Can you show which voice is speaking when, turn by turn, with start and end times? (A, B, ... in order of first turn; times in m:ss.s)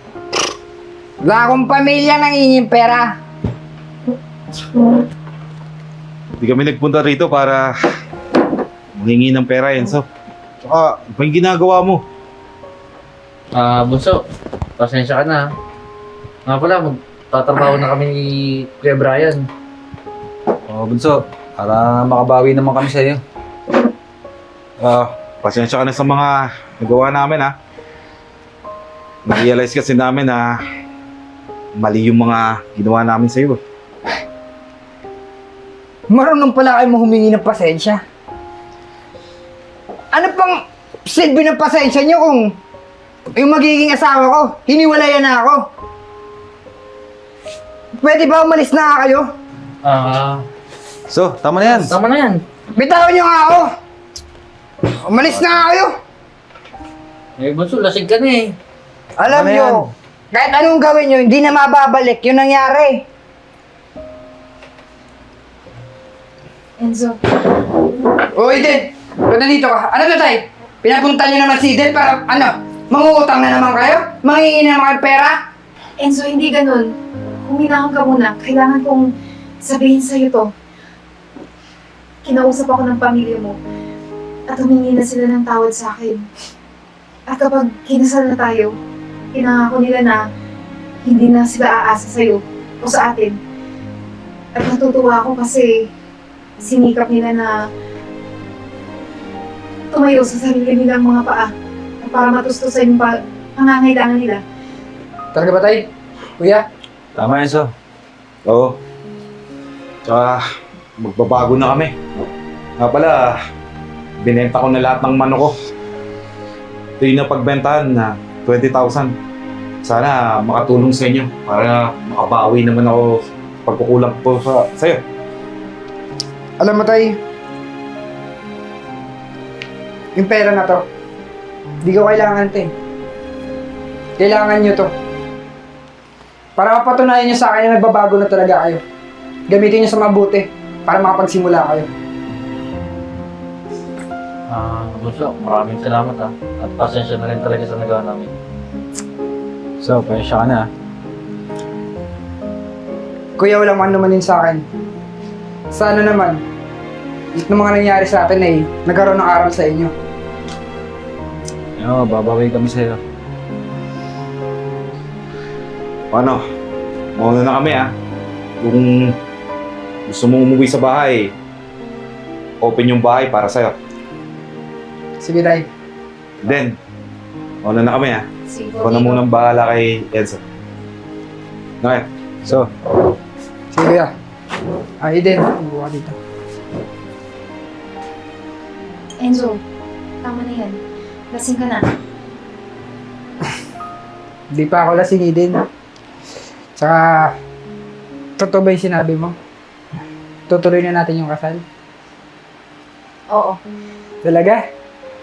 0:01.2-0:03.1 A
0:06.4-0:07.7 B
0:09.0-0:10.0 B
0:10.6-0:12.0 B
0:13.5-0:14.2 C
0:14.8-0:15.4 C
0:16.4-0:19.5 C
0:20.7-0:23.2 D
0:24.8-0:27.5 B
0:29.2-0:30.5 B
0:31.7-0:33.6 B
0:36.1-0:38.0 A
0:40.1-0:42.5 A
0:43.3-0:45.6 A
0:48.0-0:49.2 A
0:49.8-0:50.4 C
0:51.1-0:51.9 D
0:51.6-0:52.4 C
0:52.8-0:53.7 A
0:55.0-0:55.9 A
0:57.4-0:58.5 C
0:59.2-1:03.0 A
0:59.3-0:59.9 D
1:06.8-1:07.2 E
1:08.3-1:15.4 A
1:16.0-1:16.9 E
1:17.4-1:19.1 E
1:19.6-1:20.5 E
1:22.2-1:23.6 E
1:24.5-1:26.2 E
1:27.3-1:28.7 E
1:29.3-1:30.2 E
1:31.0-1:33.4 E
1:34.5-1:35.9 E
1:36.6-1:37.5 E
1:39.9-1:41.5 E
1:42.0-1:44.4 E
1:45.3-1:45.9 A
1:46.4-1:46.6 A
1:47.1-1:47.7 D
1:48.4-1:48.8 B
1:50.0-1:50.4 B
1:51.0-1:51.9 B
1:52.8-1:53.4 B
1:54.2-1:55.5 B
1:57.0-1:59.1 B
1:59.8-2:05.0 B
2:06.6-2:07.2 A
2:10.1-2:10.8 A
2:11.8-2:12.7 A
2:14.2-2:14.9 A
2:16.6-2:18.8 A
2:19.5-2:21.9 A
2:24.5-2:28.3 C
2:29.8-2:30.7 D
2:33.4-2:34.6 A
2:35.7-2:36.4 A
2:37.4-2:39.9 A
2:41.8-2:43.0 D
2:46.1-2:46.4 B
2:47.2-2:47.9 B
2:48.6-2:49.2 B
2:50.1-2:51.3 B
2:52.6-2:53.8 B
2:55.2-2:55.7 A
2:56.4-2:56.7 B
2:57.6-2:58.2 B
2:58.5-2:59.2 E
2:58.8-3:00.4 B
3:01.8-3:02.1 B
3:03.7-3:04.1 A
3:05.0-3:06.2 A
3:09.2-3:09.6 E
3:10.2-3:10.8 E
3:11.3-3:11.8 E
3:14.5-3:15.6 A
3:16.8-3:17.3 A
3:18.4-3:19.3 A
3:20.5-3:21.6 A
3:23.3-3:23.6 E
3:24.2-3:24.6 A